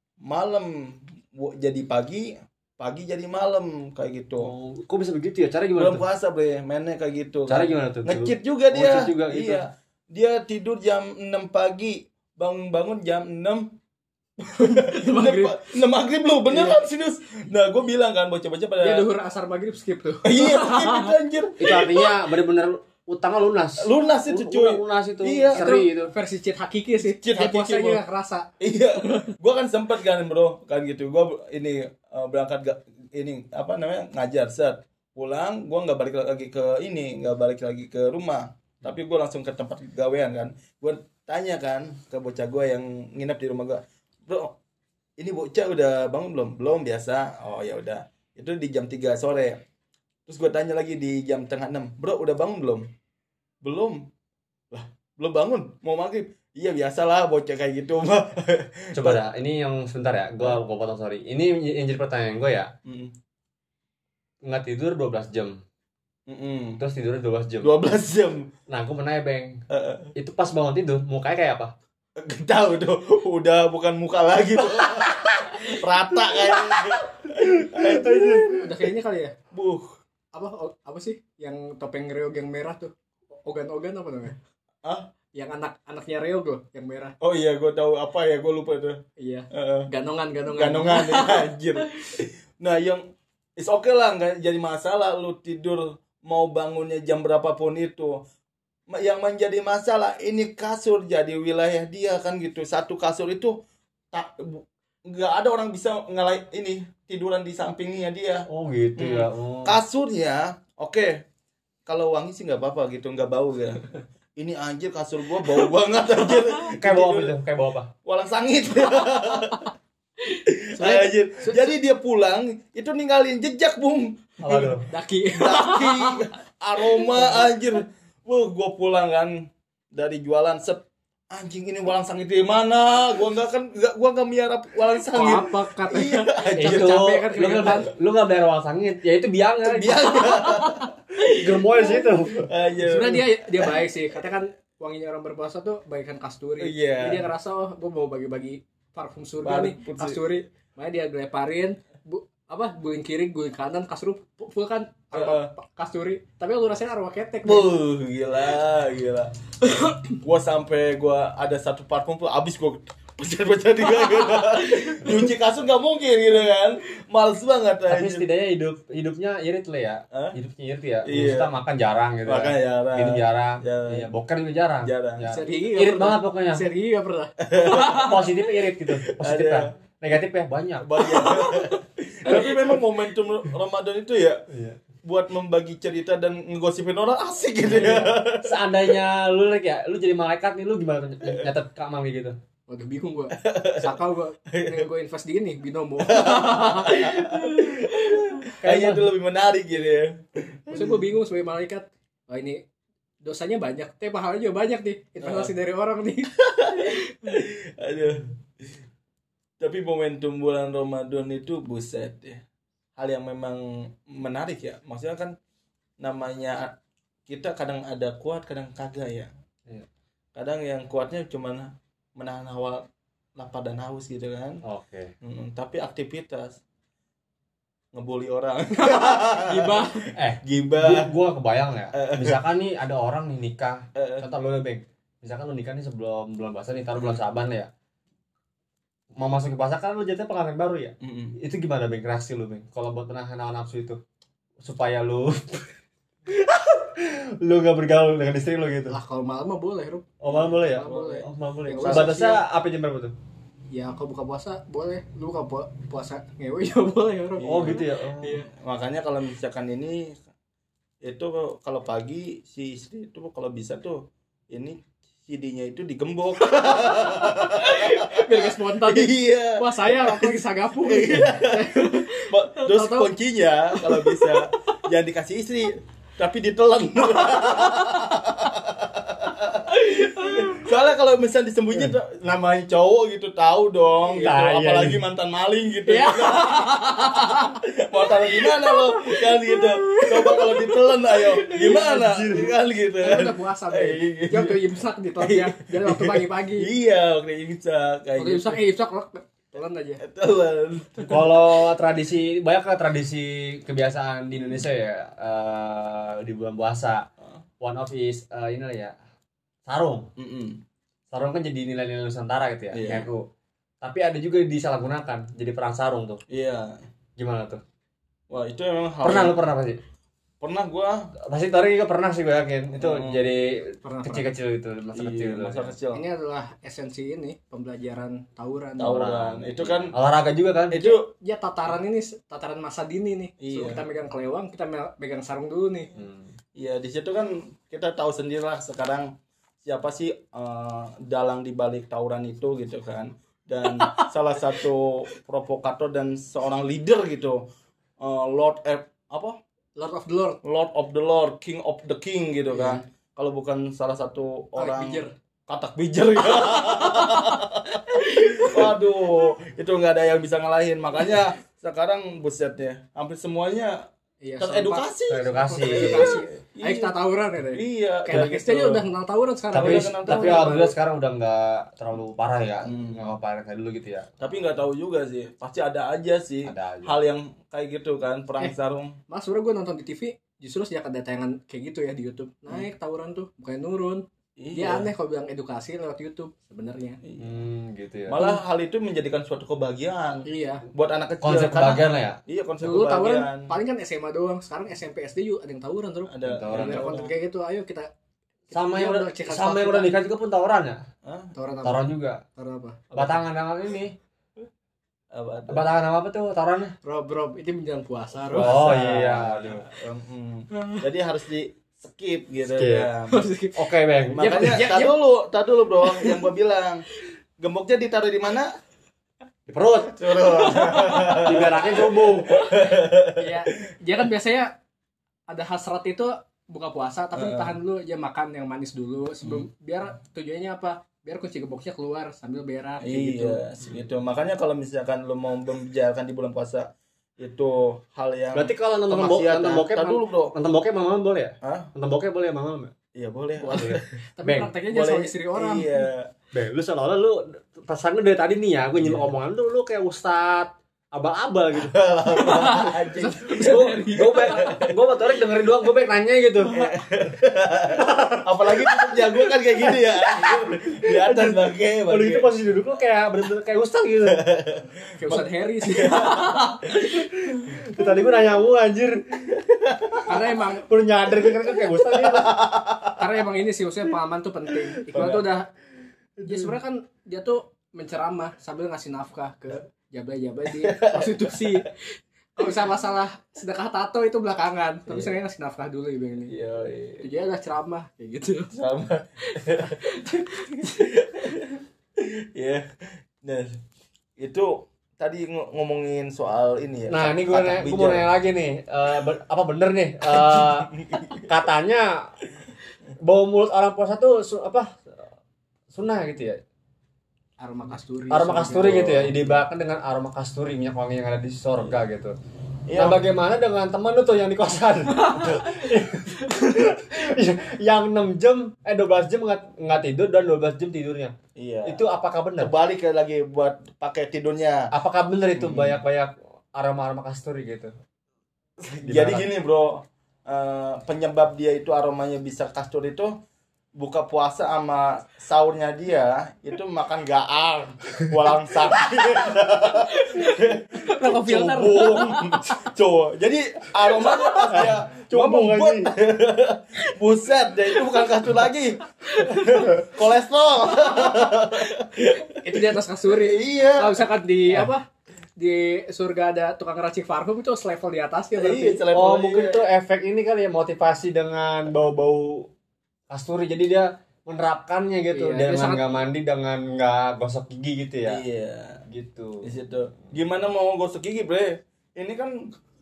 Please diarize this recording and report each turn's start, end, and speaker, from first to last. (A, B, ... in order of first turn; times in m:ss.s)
0:00.2-0:04.5 A
0:04.4-0:06.0 B
0:05.7-0:13.7 A
0:07.5-0:09.6 B
0:14.5-0:15.6 C
0:14.6-0:19.1 A
0:18.8-0:21.1 C
0:20.2-0:22.1 A
0:21.6-0:26.1 B
0:23.8-0:25.6 A
0:25.6-0:28.5 C
0:27.0-0:28.0 A
0:28.6-0:44.6 A
0:45.2-0:49.6 A
0:50.2-0:52.9 A
0:53.6-0:54.1 A
0:54.7-0:59.2 A
0:58.9-1:02.7 B
1:02.8-1:03.1 A
1:04.4-1:05.6 B
1:06.3-1:06.8 A
1:06.8-1:07.7 B
1:07.6-1:08.5 A
1:08.7-1:09.6 B
1:09.7-1:10.1 A
1:10.2-1:11.7 B
1:12.2-1:18.9 A
1:17.6-1:18.4 B
1:18.5-1:19.3 C
1:19.5-1:19.9 A
1:20.3-1:22.9 C
1:23.4-1:24.4 C
1:25.3-1:27.1 C
1:27.2-1:29.0 A
1:29.2-1:31.4 C
1:29.5-1:29.9 A
1:30.5-1:33.0 A
1:33.6-1:38.2 A
1:38.9-1:43.6 A
1:44.1-1:51.2 A
1:48.5-1:49.8 B
1:51.9-1:57.3 A
1:56.7-1:57.9 B
1:58.0-1:59.7 A
2:00.2-2:01.7 C
2:00.4-2:04.8 A
2:04.4-2:04.8 B
2:04.9-2:06.3 C
2:05.4-2:17.6 A
2:06.8-2:07.4 C
2:15.1-2:17.9 C
2:16.6-2:20.3 B
2:19.6-2:20.9 A
2:19.9-2:20.9 C
2:21.3-2:22.5 B
2:21.8-2:23.8 A
2:22.8-2:37.7 C
2:26.6-2:27.3 A
2:29.4-2:30.2 A
2:35.1-2:35.5 A
2:37.4-2:39.3 A
2:39.7-2:40.0 C
2:40.1-2:48.2 A
2:44.1-2:45.0 C
2:47.9-2:56.7 B
2:51.0-2:51.5 A
2:52.2-2:54.1 A
2:54.8-2:55.3 A
2:55.2-2:58.3 C
2:57.4-2:58.1 A
2:57.6-3:00.9 B
2:59.0-2:59.7 A
3:00.8-3:04.4 A
3:01.1-3:01.7 C
3:04.5-3:04.8 B
3:05.0-3:08.7 A
3:07.7-3:08.1 C
3:07.8-3:12.4 B
3:12.7-3:18.2 C
3:13.4-3:13.9 A
3:14.5-3:14.8 A
3:16.0-3:21.1 A
3:18.6-3:19.0 B
3:20.7-3:22.6 C
3:23.2-3:27.0 C
3:25.2-3:25.5 A
3:26.6-3:28.7 A
3:29.6-3:32.4 A
3:33.0-3:35.3 A
3:36.0-3:36.7 A
3:37.3-3:39.3 A
3:40.3-3:42.8 A
3:43.4-3:44.6 A
3:44.6-3:45.1 B
3:45.2-3:46.6 A
3:47.9-3:51.1 A
3:48.7-3:50.1 C
3:50.2-3:57.7 B
3:51.9-3:52.4 A
3:53.9-3:54.3 A
3:59.2-4:04.0 B
4:01.0-4:01.4 A
4:04.6-4:05.7 B
4:06.3-4:08.9 B
4:08.9-4:12.4 C
4:10.2-4:13.1 B
4:10.3-4:11.2 A
4:11.8-4:12.2 A
4:13.7-4:18.4 C
4:17.4-4:17.8 A
4:17.5-4:18.4 B
4:18.3-4:20.2 A
4:21.0-4:47.0 A
4:26.6-4:33.1 C
4:33.8-4:34.3 C
4:39.7-4:40.6 C
4:44.2-4:45.0 B
4:45.8-4:52.0 C
4:47.8-4:54.6 A
4:51.8-4:52.5 B
4:53.0-4:56.7 C
4:55.2-4:58.6 A
4:58.2-5:00.0 C
5:00.0-5:01.4 A
5:01.0-5:07.0 B
5:07.6-5:08.9 B
5:09.6-5:10.1 B
5:10.2-5:10.6 A
5:11.1-5:13.2 B
5:12.7-5:13.1 A
5:13.8-5:16.2 B
5:16.3-5:16.8 A
5:17.2-5:17.6 B
5:18.3-5:19.4 A
5:19.0-5:19.8 B
5:20.4-5:21.1 A
5:21.3-5:25.7 B
5:22.7-5:23.2 A
5:23.8-5:24.3 C
5:24.9-5:26.0 A
5:25.9-5:29.0 C
5:28.8-5:30.0 A
5:28.8-5:30.8 B
5:30.7-5:31.1 A
5:30.9-5:35.9 C
5:33.4-5:33.8 A
5:35.9-5:36.3 B
5:36.6-5:47.4 A
5:43.7-5:44.1 C
5:48.0-5:49.4 A
5:49.8-5:50.4 C
5:50.4-6:03.8 A
5:54.6-5:55.1 C
5:56.2-5:58.7 C
6:04.2-6:04.8 C
6:04.4-6:06.9 A
6:05.1-6:06.2 B
6:05.5-6:10.7 C
6:07.5-6:08.8 A
6:09.5-6:10.7 A
6:09.5-6:14.1 B
6:12.6-6:13.1 A
6:14.2-6:19.0 A
6:16.4-6:17.0 B
6:19.1-6:27.0 C
6:24.4-6:24.9 A
6:27.0-6:27.4 A
6:27.2-6:28.2 B
6:28.1-6:33.5 A
6:30.2-6:30.6 C
6:31.2-6:32.2 B
6:32.6-6:37.9 C
6:36.0-6:37.1 A
6:36.2-6:37.0 B
6:38.5-6:40.0 C
6:38.5-6:40.8 B
6:41.0-6:41.3 A
6:41.3-6:42.8 C
6:41.6-6:42.2 B
6:42.9-6:43.2 A
6:42.9-6:43.9 B
6:45.1-6:45.6 A
6:45.5-6:46.7 B
6:46.8-6:48.5 C
6:48.2-6:53.3 A
6:48.3-6:49.6 B
6:50.5-6:50.8 C
6:52.5-6:52.9 B
6:53.1-6:53.6 C
6:53.6-6:54.6 B
6:54.1-6:56.8 A
6:54.2-6:54.9 C
6:55.8-6:56.2 C
6:57.4-6:58.5 A
6:59.5-7:02.4 B
7:00.0-7:03.4 A
7:00.2-7:01.3 C
7:02.3-7:04.6 C
7:05.3-7:13.4 C
7:07.1-7:07.6 A
7:12.8-7:20.3 A
7:18.3-7:22.7 B
7:21.4-7:21.7 A
7:22.9-7:23.8 A
7:23.4-7:25.9 C
7:23.5-7:24.5 B
7:24.6-7:26.1 A
7:26.3-7:31.8 B
7:28.8-7:29.1 A
7:31.5-7:34.8 A
7:32.2-7:34.4 C
7:33.4-7:36.5 B
7:36.5-7:42.3 A
7:37.8-7:39.1 B
7:39.7-7:44.2 B
7:44.0-7:47.8 A
7:45.0-7:46.7 C
7:47.0-7:49.4 B
7:49.4-7:50.1 A
7:50.0-7:50.7 C
7:50.7-7:52.4 B
7:51.9-7:53.0 A
7:53.0-7:55.5 C
7:54.9-7:55.3 A
7:56.2-8:06.3 C
8:00.5-8:01.6 A
8:06.3-8:07.1 A
8:07.0-8:08.5 C
8:08.5-8:13.6 A
8:09.3-8:10.6 C
8:14.2-8:18.1 A
8:16.9-8:22.0 B
8:20.0-8:21.3 A
8:23.0-8:24.7 B
8:25.7-8:26.4 B
8:27.4-8:29.1 C
8:28.1-8:32.1 B
8:28.6-8:29.4 A
8:32.7-8:33.0 A
8:32.8-8:41.1 B
8:35.0-8:35.4 C
8:36.2-8:36.6 C
8:41.4-8:41.8 A
8:41.6-8:42.5 B
8:42.4-8:44.6 A
8:44.7-8:47.7 B
8:45.3-8:45.8 A
8:48.6-8:53.1 A
8:48.8-8:49.3 B
8:53.8-9:14.0 A
8:59.9-9:02.3 C
9:04.3-9:05.9 B
9:09.1-9:09.6 C
9:10.8-9:11.3 C
9:12.4-9:18.8 C
9:18.4-9:19.6 A
9:18.9-9:22.5 B
9:23.1-9:28.2 B
9:25.1-9:26.0 C
9:28.0-9:28.8 A
9:28.9-9:29.5 B
9:29.4-9:32.3 A